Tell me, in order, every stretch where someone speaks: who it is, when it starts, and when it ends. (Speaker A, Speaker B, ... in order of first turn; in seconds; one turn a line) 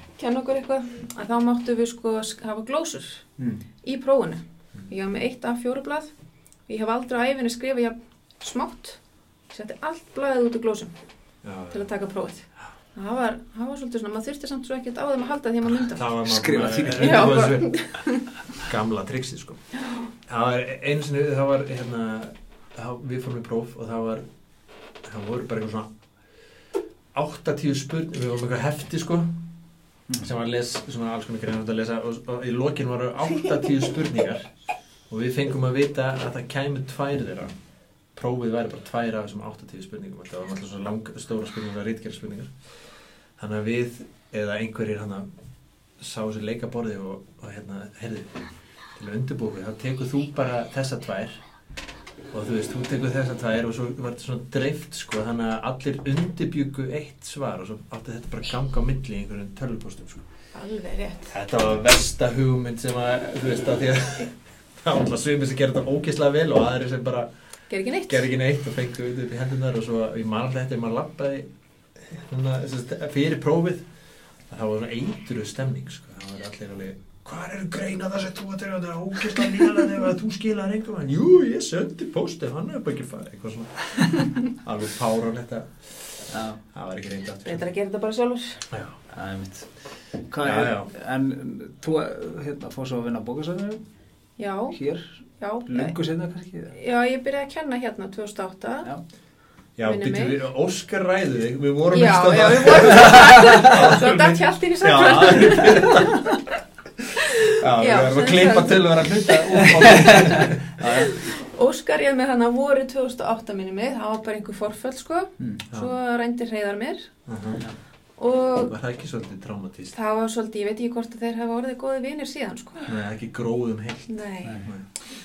Speaker A: 0.2-3.2
Speaker A: 3.8-6.1
Speaker A: 6.7-10.9
Speaker B: 11.4-11.9
Speaker A: 11.7-16.1
Speaker B: 15.9-19.6
Speaker C: 16.3-17.6
Speaker A: 17.0-18.3
Speaker B: 20.3-24.3
Speaker B: 25.0-25.9
Speaker B: 27.1-29.5
Speaker B: 30.2-34.5
Speaker B: 35.1-37.6
Speaker B: 38.1-42.5
Speaker B: 43.4-45.3
Speaker B: 46.0-48.3
Speaker B: 49.0-51.4
Speaker B: 52.3-60.2
Speaker A: 60.5-61.4
Speaker B: 61.3-67.3
Speaker A: 67.7-68.3
Speaker B: 68.1-73.9
Speaker B: 74.5-87.7
Speaker C: 86.3-86.6
Speaker A: 87.5-88.7
Speaker B: 88.7-89.0
Speaker C: 89.1-89.7
Speaker C: 90.3-93.8
Speaker B: 90.4-90.9
Speaker A: 94.4-94.8
Speaker C: 94.7-96.7
Speaker A: 95.4-96.0
Speaker A: 96.7-98.9
Speaker B: 99.8-106.4
Speaker A: 99.8-100.4
Speaker A: 101.9-106.2
Speaker C: 103.1-103.8
Speaker C: 105.3-105.7
Speaker B: 107.0-110.9
Speaker A: 107.3-109.7
Speaker C: 109.6-111.2
Speaker A: 110.8-117.1
Speaker B: 117.3-117.7
Speaker A: 118.2-118.7
Speaker B: 118.7-120.0
Speaker A: 119.9-122.9
Speaker B: 122.9-124.8
Speaker A: 124.1-124.8